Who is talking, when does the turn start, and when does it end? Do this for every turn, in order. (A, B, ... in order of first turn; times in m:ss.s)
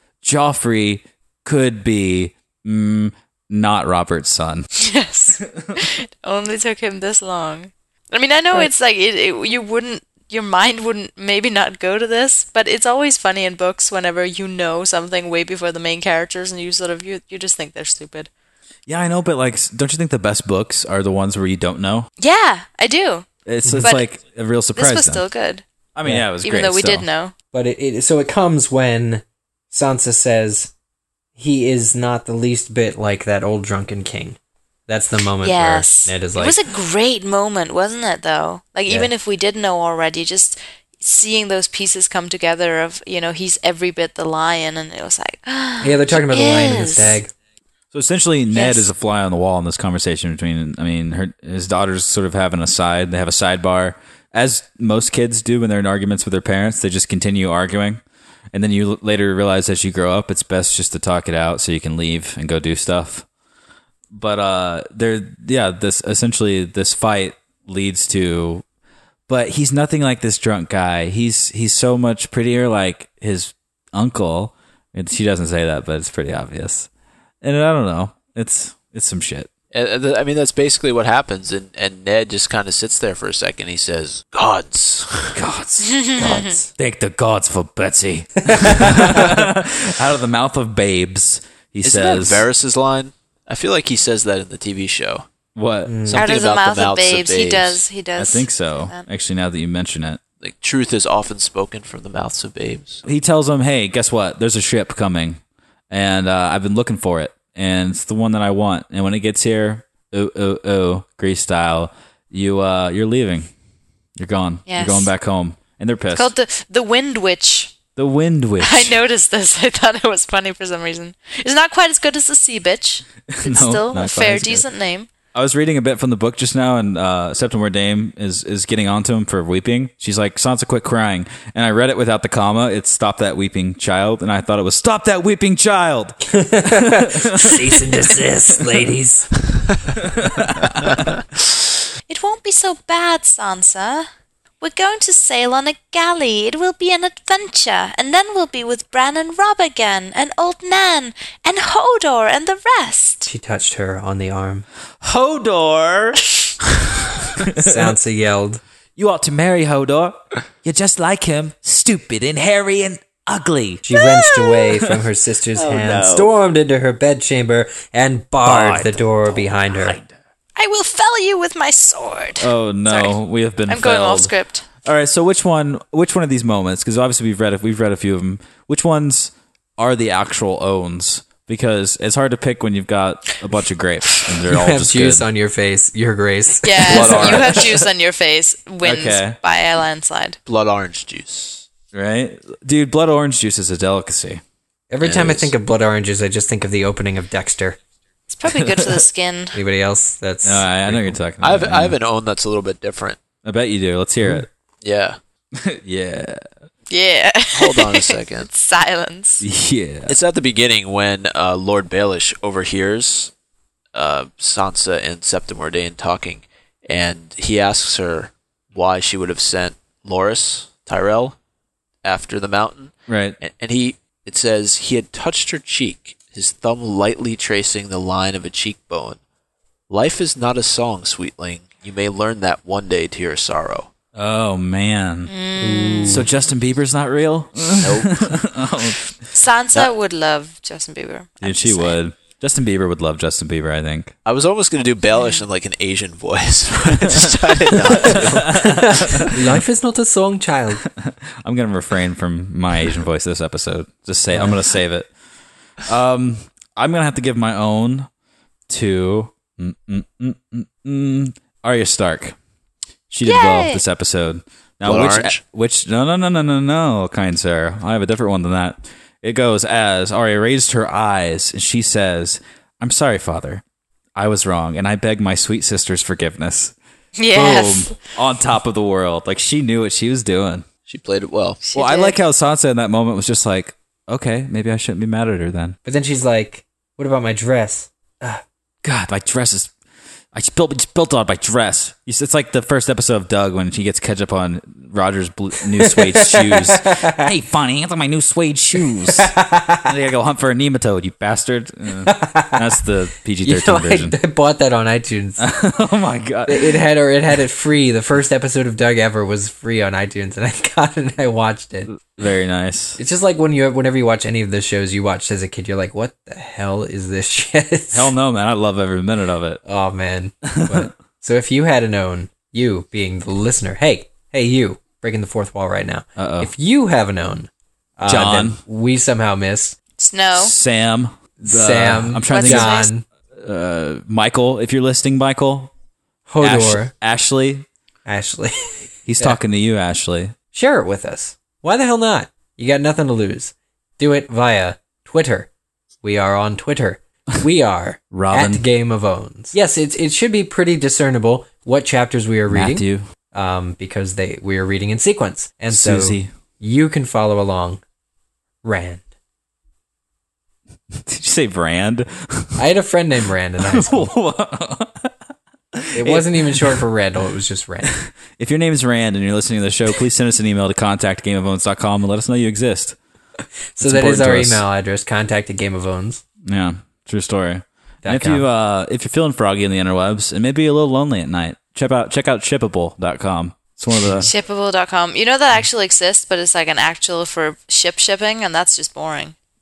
0:00.2-0:04.7 A
0:04.8-0:18.3 B
0:05.5-0:05.8 A
0:18.9-0:22.1 A
0:22.2-0:23.3 B
0:23.5-0:25.2 A
0:23.8-0:24.1 B
0:24.8-0:25.6 B
0:26.0-0:27.1 A
0:26.4-0:27.3 B
0:27.5-0:30.7 C
0:31.4-0:36.6 C
0:35.4-0:47.2 B
0:45.8-0:47.3 C
0:47.9-0:58.0 A
0:48.5-0:48.9 B
0:58.5-1:03.2 A
1:04.1-1:08.6 A
1:09.3-1:16.9 A
1:17.4-1:19.5 A
1:19.7-1:25.4 D
1:25.3-1:32.5 A
1:25.8-1:26.6 B
1:28.5-1:29.5 C
1:31.8-1:35.3 D
1:35.6-1:35.9 A
1:35.9-1:36.2 C
1:36.0-1:37.8 D
1:36.2-1:39.1 B
1:38.2-1:40.2 A
1:40.4-1:43.0 D
1:43.0-1:53.5 A
1:54.2-1:56.3 A
1:54.7-1:55.1 B
1:56.2-1:57.8 B
1:58.0-1:58.9 A
1:58.6-2:05.1 B
2:03.3-2:04.6 A
2:05.3-2:18.2 A
2:16.3-2:19.3 C
2:20.0-2:21.1 A
2:22.1-2:24.1 B
2:24.6-2:33.3 B
2:33.3-2:34.7 C
2:35.0-2:36.2 A
2:37.3-2:38.0 A
2:37.5-2:38.6 C
2:39.0-2:45.0 A
2:43.8-2:50.0 C
2:45.5-2:46.3 A
2:48.4-2:50.1 A
2:50.6-2:53.2 B
2:52.4-2:54.3 A
2:53.7-2:54.6 B
2:54.8-3:05.3 A
3:04.4-3:07.4 C
3:06.6-3:10.4 B
3:06.9-3:07.8 A
3:06.9-3:07.6 D
3:08.8-3:09.4 A
3:10.5-3:11.7 D
3:11.9-3:14.4 A
3:14.9-3:17.8 C
3:15.0-3:15.5 D
3:18.3-3:19.6 B
3:18.5-3:19.0 A
3:19.6-3:21.2 C
3:20.4-3:22.0 A
3:21.4-3:23.2 D
3:23.4-3:24.5 A
3:24.8-3:25.2 D
3:25.6-3:26.4 A
3:26.9-3:29.4 B
3:27.5-3:28.5 D
3:29.4-3:30.1 A
3:30.1-3:33.3 D
3:33.9-3:41.4 D
3:42.0-3:49.2 D
3:43.1-3:43.4 A
3:49.9-3:53.9 D
3:54.2-3:55.3 A
3:55.3-3:56.3 B
3:55.6-3:56.3 C
3:56.1-3:59.0 A
3:57.8-3:58.2 D
3:59.3-4:02.0 B
4:01.4-4:04.1 A
4:04.2-4:09.3 D
4:07.9-4:09.4 A
4:08.1-4:10.8 C
4:11.0-4:15.1 A
4:14.3-4:14.6 C
4:15.8-4:18.1 A
4:18.7-4:22.4 A
4:23.1-4:33.6 A
4:23.2-4:23.8 B
4:24.8-4:25.4 D
4:34.2-4:36.8 A
4:37.2-4:38.0 B
4:37.3-4:40.7 A
4:40.9-4:41.6 D
4:41.6-4:42.2 B
4:41.8-4:45.8 A
4:45.8-4:48.4 C
4:48.8-4:49.7 A
4:50.3-5:04.2 A
4:55.8-4:57.3 C
4:58.9-4:59.9 C
5:02.0-5:02.8 C
5:03.4-5:05.4 C
5:05.4-5:06.8 A
5:06.5-5:11.9 C
5:11.9-5:13.0 A
5:13.0-5:18.1 C
5:17.9-5:19.6 A
5:19.6-5:29.8 C
5:20.5-5:20.9 A
5:26.2-5:26.5 A
5:28.0-5:28.6 A
5:30.0-5:30.5 B
5:30.3-5:35.7 A
5:31.4-5:33.0 C
5:32.3-5:32.9 B
5:36.3-5:36.9 C
5:36.4-5:37.6 A
5:38.1-5:39.4 C
5:39.1-5:40.3 A
5:40.5-5:45.5 C
5:46.0-5:57.8 C
5:48.1-5:48.6 A
5:52.5-5:53.0 A
5:55.7-5:56.3 A
5:58.6-5:59.1 C
6:00.9-6:02.6 A
6:02.6-6:04.1 C
6:03.6-6:05.1 A
6:05.7-6:06.8 A
6:05.9-6:08.0 C
6:07.9-6:13.0 A
6:13.8-6:16.2 C
6:13.8-6:14.6 A
6:16.4-6:24.3 A
6:18.0-6:18.4 C
6:24.2-6:29.4 B